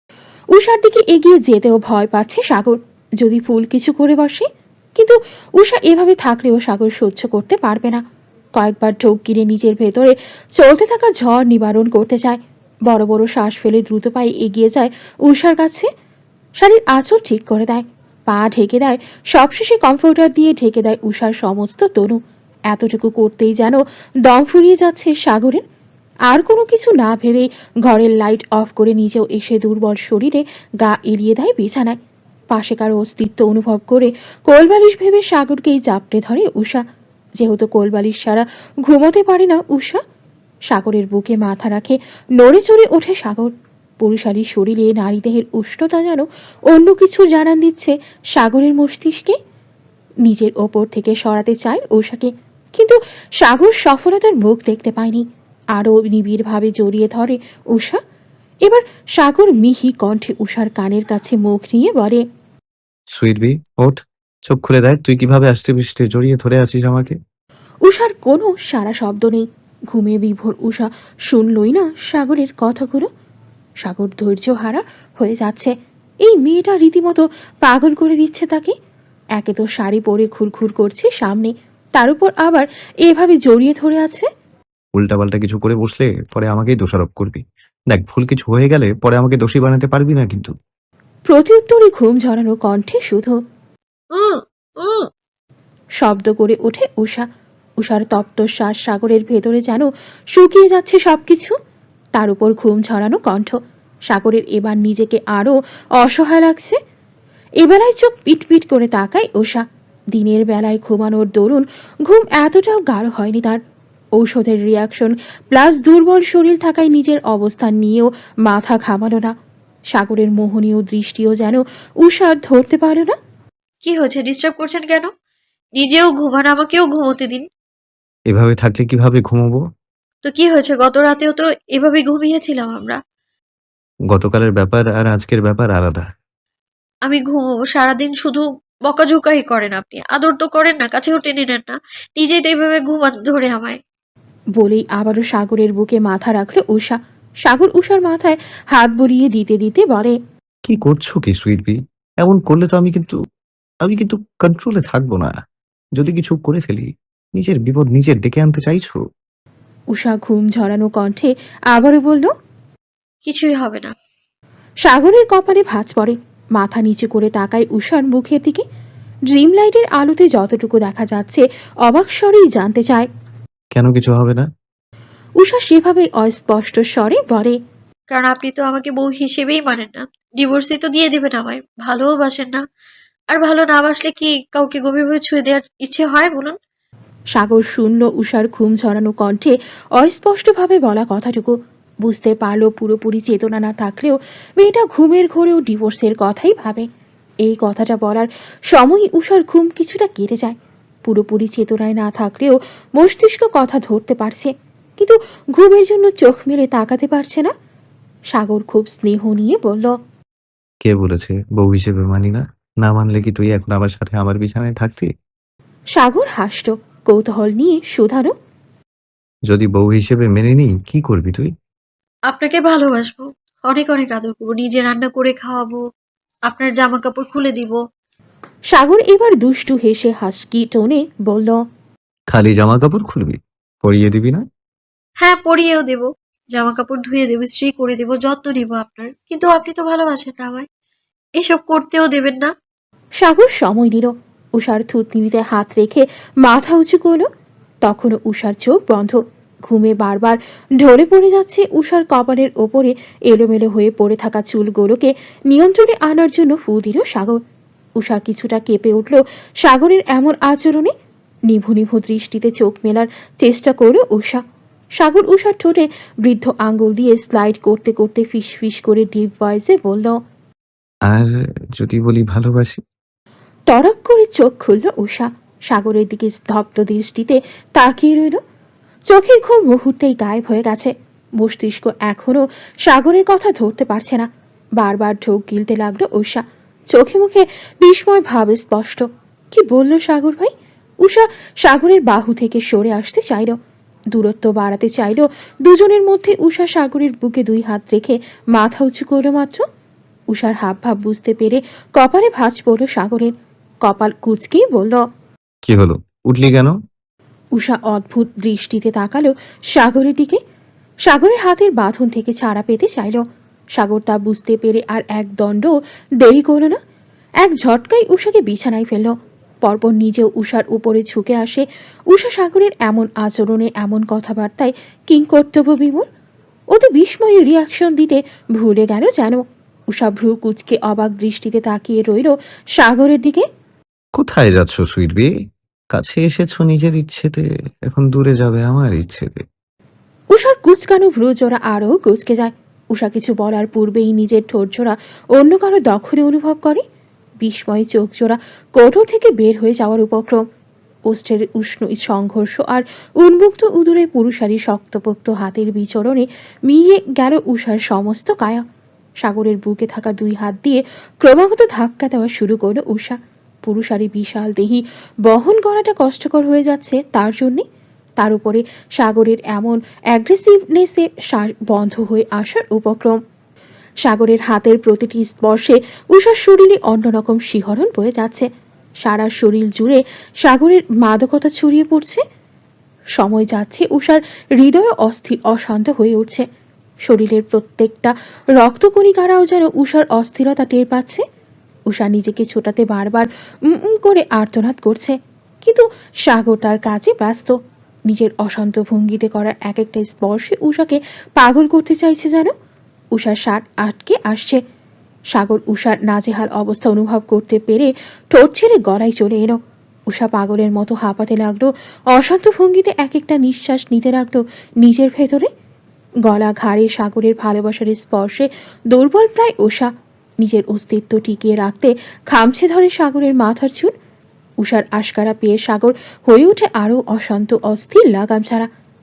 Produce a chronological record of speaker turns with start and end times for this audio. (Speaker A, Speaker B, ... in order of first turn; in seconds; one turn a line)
Speaker A: 0.5-4.5
Speaker A: 5.0-8.0
Speaker A: 8.6-15.9
Speaker A: 16.6-25.6
Speaker A: 26.3-32.0
Speaker A: 32.5-36.8
Speaker A: 37.4-40.0
Speaker A: 40.7-49.4
Speaker A: 50.2-58.0
Speaker A: 58.6-62.2
Speaker B: 63.1-67.2
Speaker A: 67.8-73.1
Speaker A: 73.8-78.8
Speaker A: 79.3-84.3
Speaker B: 84.9-90.5
Speaker A: 91.3-93.3
Speaker C: 94.1-95.1
Speaker A: 96.0-97.2
Speaker A: 97.8-101.5
Speaker A: 102.1-103.6
Speaker A: 104.1-106.8
Speaker A: 107.6-113.6
Speaker A: 114.2-119.3
Speaker A: 119.9-123.2
Speaker C: 123.8-125.1
Speaker C: 125.8-127.5
Speaker B: 128.3-129.6
Speaker C: 130.2-133.0
Speaker B: 134.1-136.1
Speaker C: 137.0-143.8
Speaker A: 144.6-150.1
Speaker B: 150.6-153.2
Speaker B: 153.8-155.3
Speaker B: 155.9-159.0
Speaker A: 159.9-162.3
Speaker C: 163.2-163.9
Speaker A: 164.8-168.6
Speaker A: 169.3-173.1
Speaker B: 173.7-174.5
Speaker A: 175.4-177.6
Speaker C: 178.1-182.6
Speaker C: 183.3-186.6
Speaker A: 187.3-196.8
Speaker A: 197.4-207.5
Speaker A: 208.3-209.9
Speaker B: 210.8-215.1
Speaker A: 215.9-218.3
Speaker B: 219.5-221.5
Speaker C: 222.3-225.8
Speaker C: 226.5-227.8
Speaker A: 228.7-231.6
Speaker B: 232.3-234.4
Speaker C: 235.2-240.7
Speaker C: 241.4-242.5
Speaker A: 243.2-247.3
Speaker A: 247.8-257.4
Speaker A: 258.0-260.9
Speaker A: 261.5-264.4
Speaker A: 265.0-270.1
Speaker B: 271.1-272.8
Speaker A: 273.7-278.4
Speaker A: 279.1-290.5
Speaker A: 291.0-293.6
Speaker A: 294.1-299.6
Speaker A: 300.3-303.3
Speaker A: 303.8-305.0
Speaker B: 305.6-306.8
Speaker A: 307.6-310.4
Speaker A: 311.1-313.2
Speaker A: 313.8-316.8
Speaker A: 317.4-326.1
Speaker A: 326.7-333.4
Speaker B: 334.1-335.3
Speaker B: 335.9-339.4
Speaker A: 340.3-346.8
Speaker A: 347.4-350.4
Speaker A: 351.1-358.6
Speaker A: 359.2-367.6
Speaker A: 368.2-373.2
Speaker A: 374.0-378.5
Speaker A: 379.0-382.2
Speaker A: 383.1-386.4
Speaker A: 387.0-391.2
Speaker A: 391.9-397.6
Speaker A: 398.1-402.5
Speaker A: 403.1-404.6
Speaker A: 405.3-415.5
Speaker A: 416.2-423.9
Speaker A: 424.6-428.7